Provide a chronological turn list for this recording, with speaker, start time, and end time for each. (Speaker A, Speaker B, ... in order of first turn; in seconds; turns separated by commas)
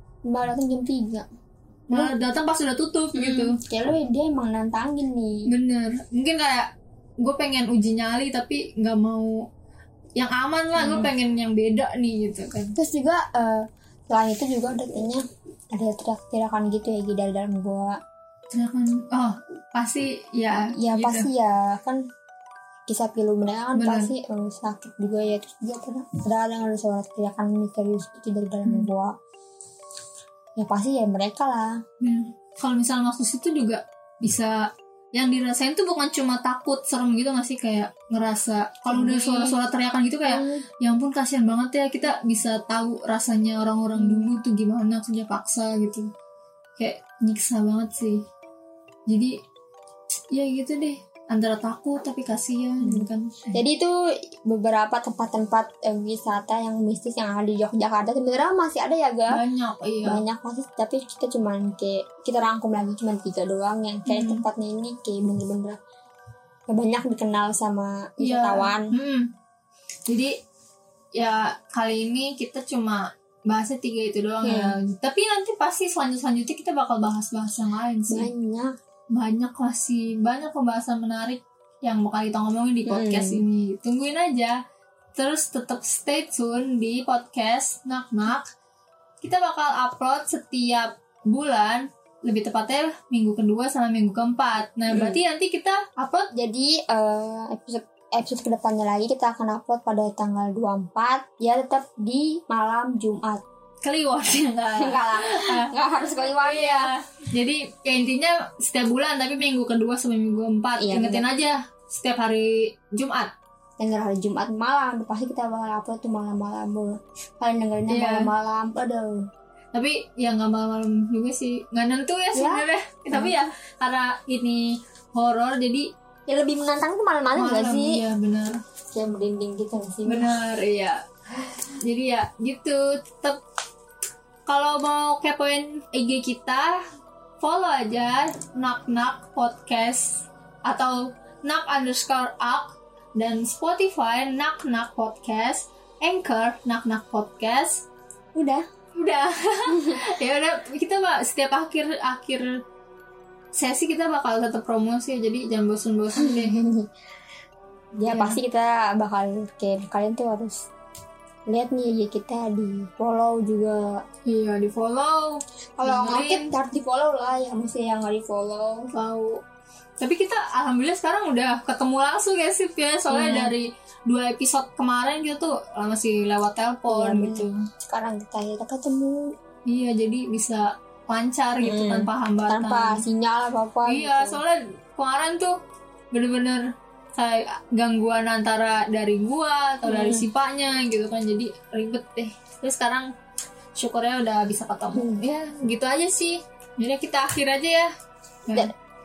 Speaker A: 0.3-1.3, Speaker B: 1.9-3.6, Speaker A: 3.1-5.5, Speaker B: 5.5-6.7, Speaker B: 7.2-9.4, Speaker B: 10.2-12.8, Speaker A: 10.8-11.1, Speaker A: 12.8-18.0, Speaker B: 18.5-21.3, Speaker A: 20.5-22.0, Speaker A: 22.9-29.1, Speaker B: 23.8-24.1, Speaker A: 30.6-31.8, Speaker B: 32.0-46.1, Speaker A: 38.9-39.6, Speaker A: 40.3-40.6, Speaker A: 43.9-44.3, Speaker B: 46.8-48.2, Speaker B: 49.1-49.4, Speaker B: 50.3-53.6, Speaker A: 52.8-59.4, Speaker B: 59.3-60.2, Speaker A: 60.0-65.8, Speaker B: 64.1-64.5, Speaker A: 66.7-68.9, Speaker B: 68.2-69.3, Speaker B: 70.1-70.3, Speaker B: 71.2-78.3, Speaker A: 74.4-74.8, Speaker A: 78.1-78.7, Speaker B: 79.1-84.6, Speaker A: 82.9-83.4, Speaker B: 85.2-88.5, Speaker B: 89.2-96.3, Speaker A: 94.9-95.2, Speaker A: 96.3-103.4, Speaker B: 103.8-105.7, Speaker A: 104.8-106.9, Speaker B: 106.2-113.3, Speaker A: 110.8-111.3, Speaker A: 113.8-119.3, Speaker B: 117.9-118.3, Speaker B: 119.7-125.9, Speaker A: 122.3-123.4, Speaker A: 126.3-128.0, Speaker B: 127.3-128.6, Speaker A: 128.9-130.3, Speaker B: 130.1-131.0, Speaker B: 131.8-133.4, Speaker B: 134.5-136.8, Speaker B: 137.4-147.9, Speaker A: 148.3-148.7, Speaker B: 149.0-152.5, Speaker A: 149.7-150.0, Speaker B: 153.5-156.6, Speaker A: 156.2-156.9, Speaker B: 158.0-158.4, Speaker A: 158.0-160.7, Speaker A: 161.5-164.0, Speaker B: 164.3-166.5, Speaker A: 165.8-168.9, Speaker B: 168.9-169.4, Speaker B: 170.0-177.6, Speaker A: 173.1-173.5, Speaker A: 176.9-179.3, Speaker B: 179.7-183.0, Speaker A: 181.6-184.4, Speaker B: 183.9-185.6, Speaker B: 186.1-193.1, Speaker A: 189.8-190.3, Speaker B: 193.8-197.9, Speaker A: 194.9-195.2